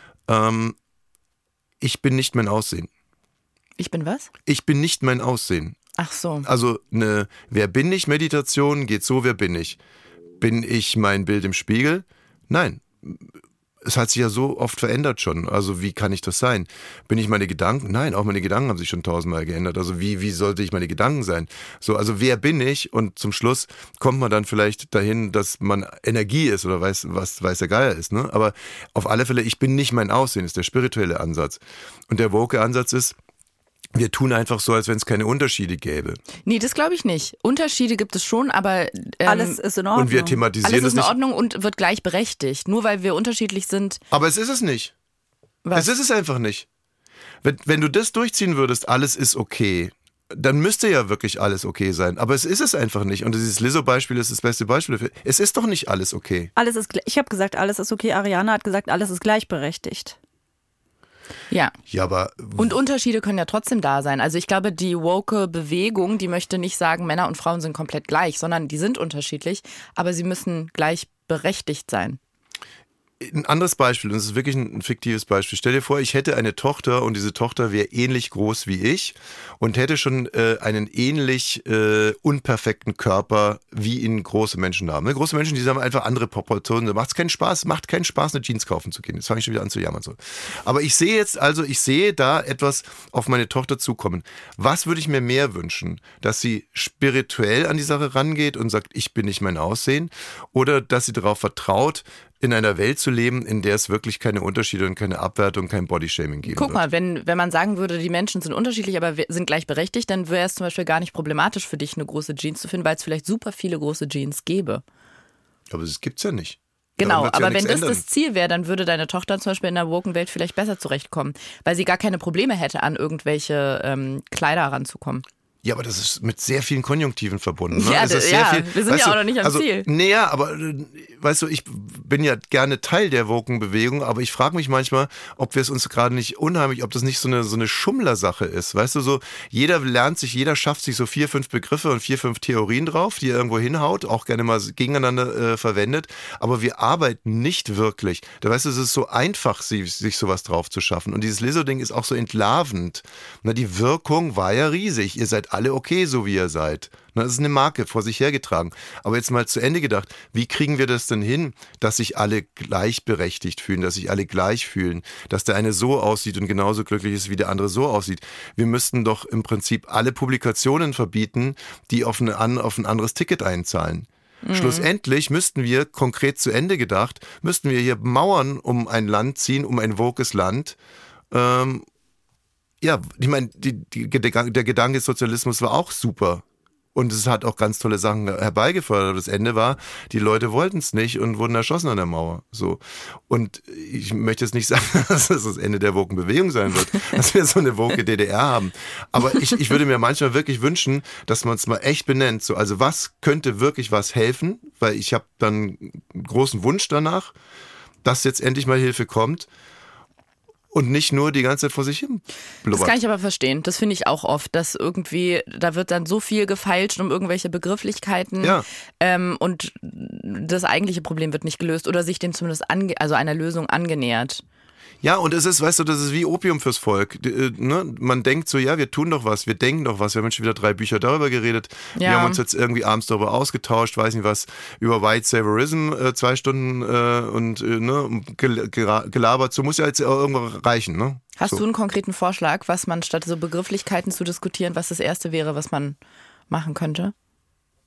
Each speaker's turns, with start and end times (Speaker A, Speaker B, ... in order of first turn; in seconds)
Speaker A: 0.3-0.8, 1.8-2.9, 4.5-5.8, 6.5-9.8, 10.4-13.3, 13.8-33.2, 34.0-36.2, 40.0-41.1, 44.1-44.9, 45.7-46.7, 47.4-56.5, 61.9-62.7, 73.2-106.8, 115.7-118.0, 125.6-180.8, 181.3-181.9, 182.8-186.4, 186.9-207.3, 208.0-209.5, 210.7-212.9, 218.4-218.7, 225.0-241.6
Speaker B: 3.8-4.3, 6.0-6.5, 36.5-39.6, 40.6-44.0, 45.6-45.9, 61.5-61.8, 62.6-72.2, 106.5-114.8, 117.0-125.2, 127.7-129.9, 174.4-174.9, 212.7-224.4, 232.0-232.4, 241.4-246.0, 246.5-247.1
Speaker C: 39.2-40.4, 56.6-60.2